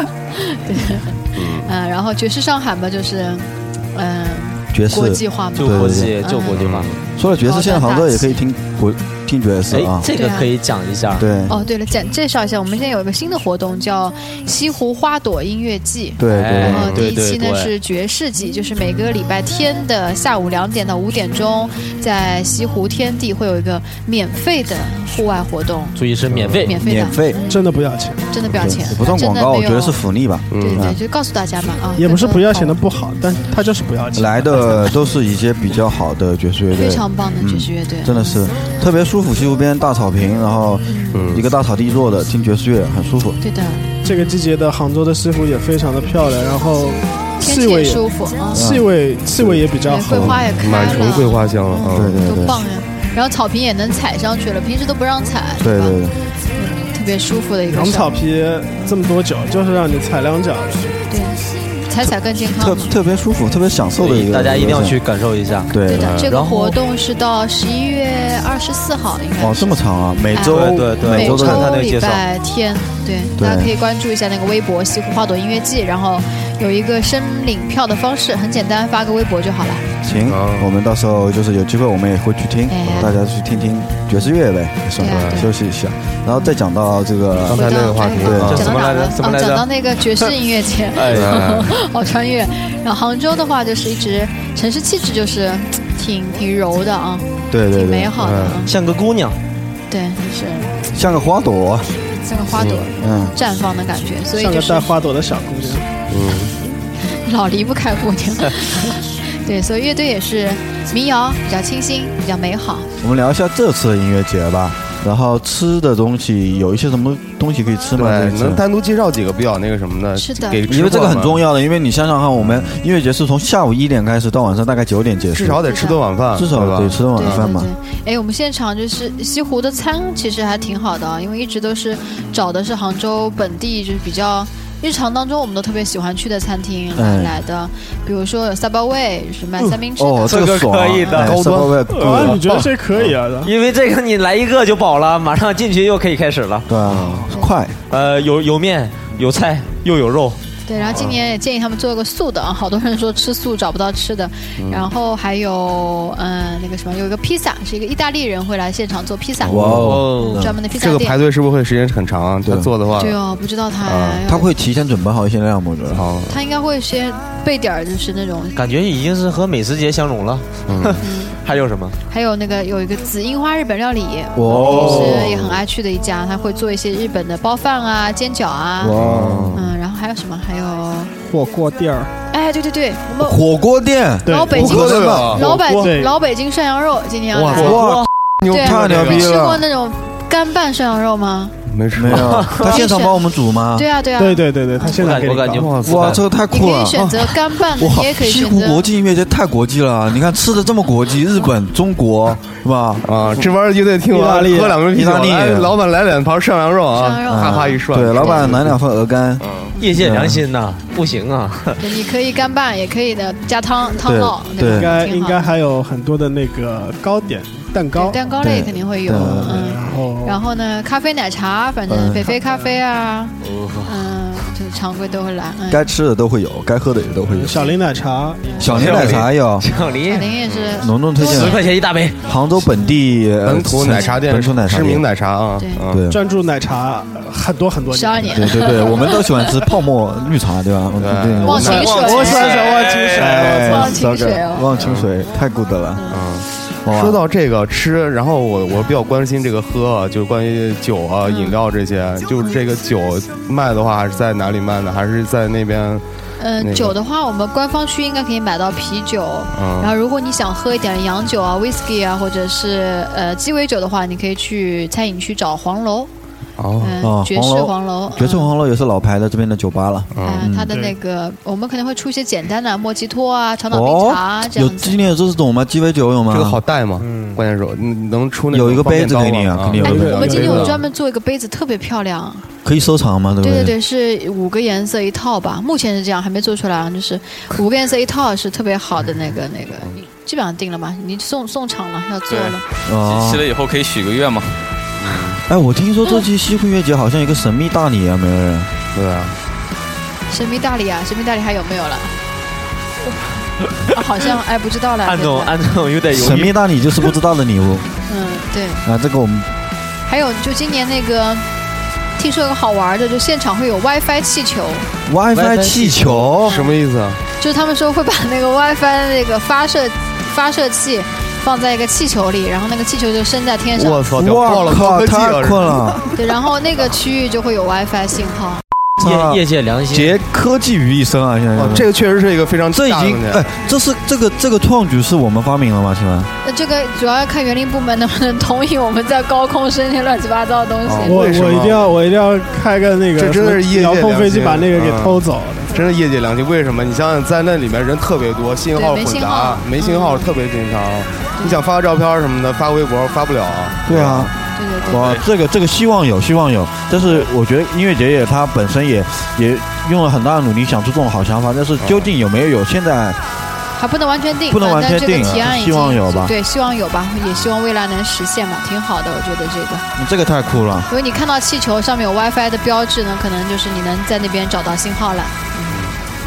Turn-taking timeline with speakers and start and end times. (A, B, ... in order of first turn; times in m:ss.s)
0:00.3-0:06.6 A
0:01.4-0:01.7 B
0:04.7-0:06.2 C
0:05.6-0:07.0 D
0:06.6-0:07.0 B
0:07.2-0:10.1 C
0:07.3-0:08.4 A
0:09.7-0:11.3 D
0:10.1-0:10.5 A
0:11.2-0:11.6 C
0:11.5-0:26.0 A
0:16.2-0:17.0 C
0:16.3-0:17.7 D
0:16.7-0:17.0 B
0:26.0-0:26.8 D
0:26.3-0:26.6 B
0:26.6-0:27.7 A
0:26.7-0:27.4 C
0:27.5-0:28.2 E
0:28.3-0:30.0 A
0:28.5-0:31.0 C
0:30.5-0:30.9 B
0:30.5-0:32.8 A
0:32.0-0:35.0 E
0:34.2-0:43.4 C
0:36.8-0:38.3 A
0:40.9-0:41.2 A
0:41.1-0:41.4 B
0:43.4-0:44.4 A
0:44.0-0:50.4 E
0:47.4-0:48.6 A
0:48.5-0:50.4 C
0:49.8-0:56.0 A
0:50.6-0:52.3 B
0:51.9-0:52.6 C
0:55.6-0:56.2 C
0:56.5-0:58.1 A
0:57.7-1:01.0 E
1:01.1-1:02.9 A
1:02.0-1:05.0 C
1:04.0-1:05.7 D
1:05.7-1:06.2 C
1:05.9-1:09.7 A
1:06.0-1:06.3 B
1:06.3-1:06.8 D
1:09.4-1:11.7 C
1:10.3-1:19.8 A
1:10.4-1:12.2 D
1:13.4-1:13.7 C
1:20.0-1:27.7 C
1:20.3-1:20.7 B
1:22.7-1:23.1 A
1:25.0-1:25.5 A
1:25.0-1:25.4 B
1:26.3-1:26.6 A
1:27.4-1:28.7 B
1:27.5-1:38.7 A
1:28.2-1:28.7 C
1:28.2-1:29.7 D
1:30.9-1:31.5 D
1:31.1-1:31.8 B
1:37.5-1:38.2 C
1:38.2-1:38.6 B
1:38.6-1:39.4 D
1:39.9-1:40.7 A
1:40.9-1:41.9 C
1:42.2-1:44.9 A
1:42.6-1:42.9 B
1:43.0-1:43.3 C
1:44.4-1:45.9 E
1:46.1-1:46.5 B
1:47.0-1:52.9 A
1:53.0-1:58.6 C
1:58.0-2:01.4 B
2:00.2-2:00.6 A
2:00.7-2:05.6 C
2:02.4-2:02.7 B
2:05.3-2:07.0 B
2:05.6-2:06.0 A
2:06.3-2:07.7 C
2:07.2-2:21.2 A
2:17.0-2:17.4 C
2:20.0-2:22.4 C
2:20.2-2:21.3 D
2:21.2-2:23.1 B
2:21.9-2:23.5 E
2:23.4-2:26.7 D
2:26.7-2:27.8 C
2:26.9-2:27.2 B
2:27.9-2:30.4 D
2:30.7-2:41.2 A
2:34.6-2:34.9 B
2:39.4-2:40.5 C
2:39.5-2:40.5 D
2:40.7-2:43.2 B
2:42.5-2:42.7 C
2:43.0-2:44.5 A
2:43.8-2:44.2 B
2:44.3-2:46.0 C
2:45.9-2:46.3 B
2:46.3-2:48.6 A
2:48.6-2:52.0 D
2:50.7-2:51.0 B
2:51.0-2:51.4 A
2:52.1-2:59.0 A
2:54.4-2:55.5 C
2:54.6-2:55.0 E
2:54.6-2:55.5 B
2:58.8-2:59.7 C
2:59.0-2:59.7 B
2:59.5-3:01.1 A
3:01.2-3:02.1 E
3:02.3-3:03.4 A
3:03.2-3:05.4 C
3:04.2-3:04.8 E
3:04.2-3:07.8 A
3:04.6-3:05.4 B
3:05.3-3:06.1 E
3:07.4-3:07.9 B
3:07.4-3:09.6 C
3:07.6-3:08.1 D
3:08.4-3:09.3 B
3:08.5-3:11.6 A
3:11.7-3:12.6 B
3:12.0-3:13.9 C
3:12.2-3:12.7 D
3:12.6-3:15.0 A
3:14.2-3:15.8 E
3:14.9-3:16.2 D
3:15.3-3:16.2 B
3:15.8-3:23.1 C
3:16.5-3:18.9 A
3:17.0-3:17.2 B
3:23.0-3:28.8 B
3:24.1-3:24.8 E
3:24.9-3:25.8 C
3:27.0-3:28.5 A
3:27.3-3:30.4 C
3:29.4-3:29.8 B
3:29.8-3:31.8 D
3:31.8-3:35.5 A
3:34.0-3:35.0 C
3:34.6-3:38.2 E
3:38.0-3:45.9 A
3:38.4-3:39.7 C
3:39.1-3:40.4 E
3:41.9-3:42.4 C
3:43.4-3:44.1 D
3:45.7-3:47.6 C
3:47.3-3:48.8 E
3:48.5-3:49.0 A
3:48.6-3:49.7 C
3:48.7-3:49.3 B
3:48.8-3:50.3 D
3:50.0-3:51.7 A
3:50.5-3:50.8 B
3:50.7-3:51.6 C
3:51.2-3:52.2 D
3:52.2-3:55.0 C
3:52.7-3:53.0 A
3:53.4-3:56.0 B
3:55.6-3:55.8 A
3:55.9-3:56.2 C
3:56.1-3:59.0 E
3:57.9-3:59.4 A
3:58.3-4:01.9 C
4:01.0-4:02.3 B
4:01.4-4:04.0 E
4:01.4-4:02.7 A
4:01.7-4:03.6 F
4:03.1-4:06.0 C
4:03.4-4:04.7 A
4:04.8-4:05.1 B
4:06.0-4:06.2 A
4:06.1-4:16.0 B
4:06.8-4:07.2 C
4:11.2-4:11.6 A
4:16.4-4:26.1 A
4:16.6-4:16.9 B
4:19.5-4:19.9 B
4:26.6-4:27.0 B
4:26.8-4:28.5 A
4:27.0-4:30.7 C
4:30.2-4:31.0 B
4:30.2-4:35.1 A
4:33.7-4:36.6 C
4:36.3-4:40.8 B
4:37.0-4:37.4 D
4:38.5-4:40.2 C
4:39.8-4:40.8 E
4:39.9-4:42.5 A
4:42.6-4:43.8 C
4:43.4-4:52.6 A
4:52.3-4:54.6 F
4:52.8-4:53.5 C
4:55.0-4:55.4 B
4:55.5-4:58.7 C
4:58.9-4:59.4 B
5:00.3-5:02.2 A
5:03.9-5:05.6 A
5:05.0-5:07.0 D
5:06.1-5:07.9 C
5:08.1-5:08.8 A
5:08.8-5:09.5 C
5:10.1-5:11.5 A
5:12.2-5:14.9 A
5:15.1-5:16.6 C
5:15.4-5:16.2 D
5:16.2-5:17.2 B
5:16.5-5:16.7 A
5:17.4-5:24.7 A
5:23.8-5:25.8 B
5:24.2-5:26.0 C
5:26.2-5:28.6 A
5:29.0-5:31.9 C
5:29.0-5:30.2 D
5:31.6-5:33.5 B
5:32.7-5:36.3 C
5:36.4-5:41.2 A
5:40.9-5:41.9 B
5:41.0-5:45.7 E
5:43.2-5:54.3 B
5:48.8-5:50.3 A
5:51.4-5:51.6 A
5:53.9-5:54.3 C
5:54.6-5:55.0 A
5:54.9-5:55.2 F
5:54.9-6:03.2 C
6:01.8-6:02.1 B
6:03.8-6:09.9 A
6:04.5-6:06.3 C
6:05.2-6:05.5 B
6:10.0-6:10.9 C
6:10.9-6:15.7 A
6:15.7-6:16.0 B